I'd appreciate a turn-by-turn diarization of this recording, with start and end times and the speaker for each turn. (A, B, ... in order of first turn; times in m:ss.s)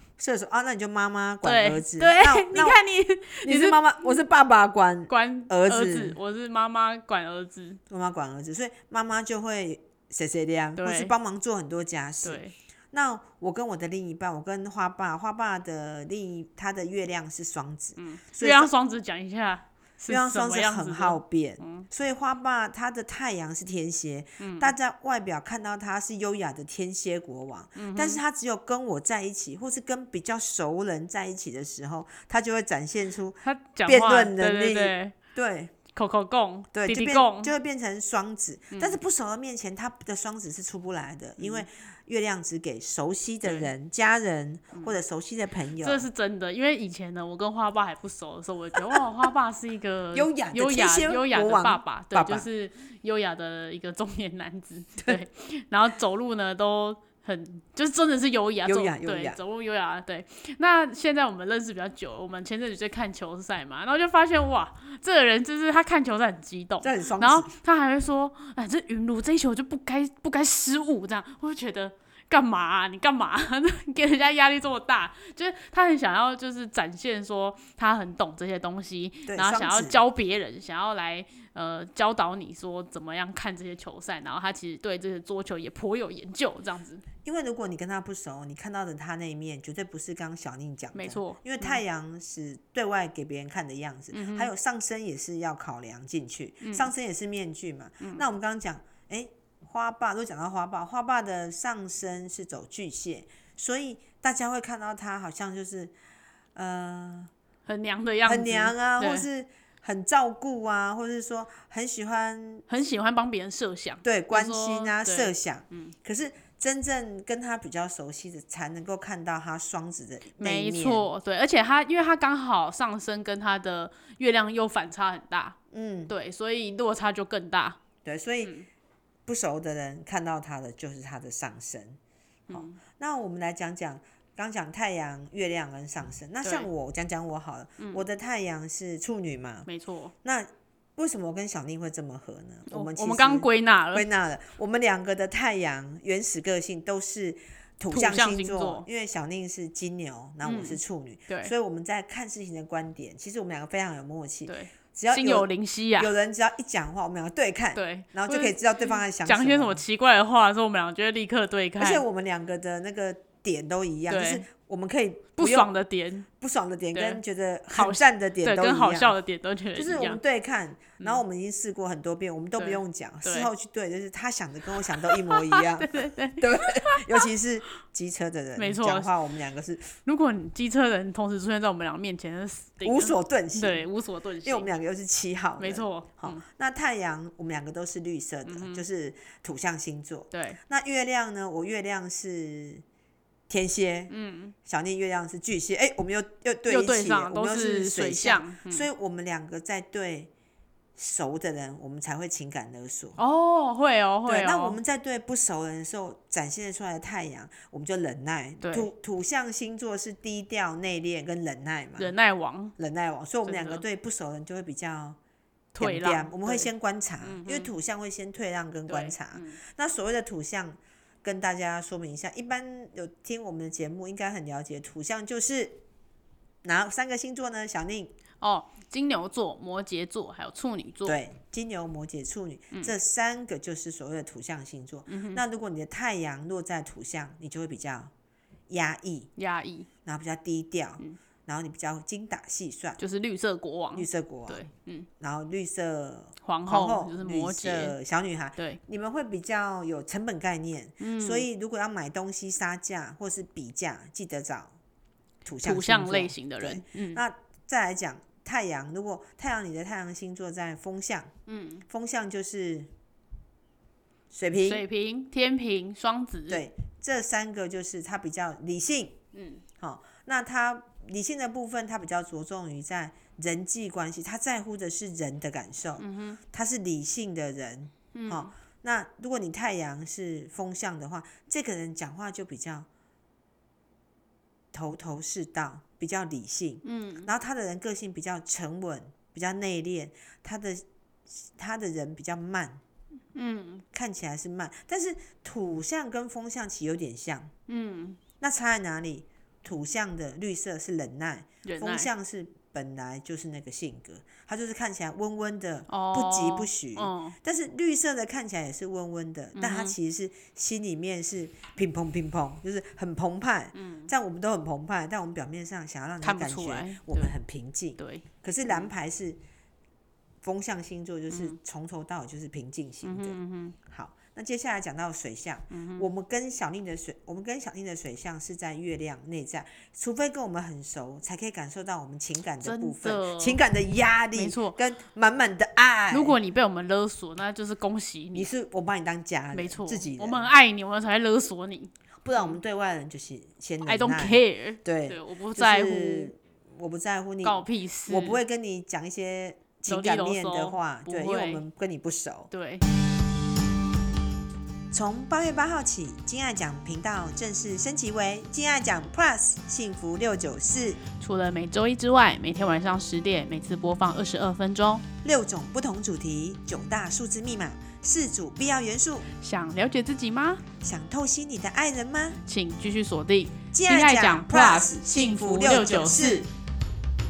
0:00.2-0:02.8 A
0:01.4-0:03.8 B
0:03.4-0:06.2 A
0:05.1-0:07.8 B
0:07.9-0:18.7 A
0:10.8-0:11.1 B
0:12.2-0:12.5 B
0:18.0-0:21.9 B
0:20.1-0:35.8 A
0:24.4-0:24.7 B
0:27.8-0:28.2 B
0:33.4-0:35.2 B
0:35.9-0:37.5 B
0:36.7-0:46.0 A
0:38.7-0:39.0 B
0:41.4-0:41.7 B
0:43.4-0:43.7 B
0:45.8-1:27.0 B
0:50.1-0:52.5 A
0:58.7-0:59.4 A
1:06.8-1:07.5 A
1:19.3-1:20.0 A
1:27.2-1:45.9 A
1:30.9-1:31.8 B
1:34.1-1:34.5 B
1:36.6-1:36.9 B
1:46.6-1:47.3 A
1:47.7-1:49.3 B
1:48.2-1:52.7 A
1:52.7-1:55.9 B
1:54.0-2:01.1 A
2:00.4-2:05.6 B
2:05.7-2:06.1 A
2:06.1-2:07.8 B
2:08.0-2:08.5 A
2:09.3-2:12.0 A
2:12.5-2:12.8 B
2:12.5-2:19.7 A
2:16.4-2:16.7 B
2:19.7-2:20.1 B
2:20.2-2:39.8 A
2:22.7-2:24.1 B
2:27.9-2:28.9 B
2:30.4-2:31.5 B
2:34.5-2:36.1 B
2:37.8-2:42.0 B
2:41.8-2:45.7 A
2:44.1-2:44.5 B
2:45.4-2:46.3 B
2:46.4-2:49.2 A
2:46.9-2:47.2 B
2:47.7-2:50.2 B
2:49.7-2:59.9 A
2:52.6-2:53.5 B
2:55.0-2:57.3 B
2:58.6-2:59.1 B
3:00.0-3:04.7 B
3:02.8-3:03.9 A
3:04.4-3:12.8 A
3:05.6-3:06.4 B
3:08.5-3:08.8 B
3:10.3-3:10.6 B
3:13.5-3:14.1 A
3:14.1-3:14.5 B
3:14.6-3:20.3 A
3:16.7-3:18.9 B
3:21.0-3:23.2 A
3:23.2-3:24.8 B
3:24.3-3:32.1 A
3:28.6-3:28.9 B
3:32.0-3:32.8 B
3:32.8-3:35.2 A
3:33.4-3:33.8 B
3:35.7-3:36.7 B
3:35.8-3:45.8 A
3:37.2-3:37.7 B
3:38.9-3:39.6 B
3:46.6-3:48.1 A
3:48.4-3:51.2 B
3:51.1-3:58.1 A
3:55.1-3:55.4 B
3:58.7-3:59.3 A
3:59.4-3:59.9 B
4:00.0-4:03.0 A
4:03.0-4:05.1 B
4:03.9-4:04.7 A
4:05.2-4:14.8 A
4:06.4-4:08.0 B
4:11.0-4:11.5 B
4:15.4-4:21.3 A
4:15.6-4:17.2 B
4:21.5-4:21.8 B
4:21.9-4:22.9 A
4:24.3-4:24.8 A
4:24.6-4:26.6 B
4:26.5-4:29.2 A
4:29.3-4:29.6 B
4:29.8-4:42.9 A
4:36.0-4:36.4 B
4:38.1-4:38.5 B
4:44.7-4:52.8 A
4:46.8-4:47.3 B
4:53.3-4:53.8 B
4:53.9-4:57.5 A
4:57.7-4:58.2 B
4:58.4-5:19.4 A
5:01.6-5:02.1 B
5:05.9-5:07.4 B
5:09.6-5:10.0 B
5:13.7-5:14.1 B
5:16.2-5:17.3 B
5:18.0-5:18.9 B
5:20.4-5:36.4 A
5:21.3-5:21.6 B
5:23.0-5:23.8 B
5:25.7-5:26.1 B
5:32.6-5:33.6 B
5:34.4-5:34.8 B
5:36.1-5:38.5 B
5:38.3-5:40.5 A
5:39.5-5:42.6 B
5:42.2-5:52.5 A
5:43.8-5:46.3 B
5:47.4-5:48.4 B
5:49.9-5:51.6 B
5:52.5-5:52.8 B
5:54.9-6:01.0 A
6:01.1-6:05.0 B
6:05.2-6:09.3 A
6:09.3-6:10.6 B
6:10.8-6:12.4 A
6:12.4-6:16.4 B
6:13.7-6:16.5 A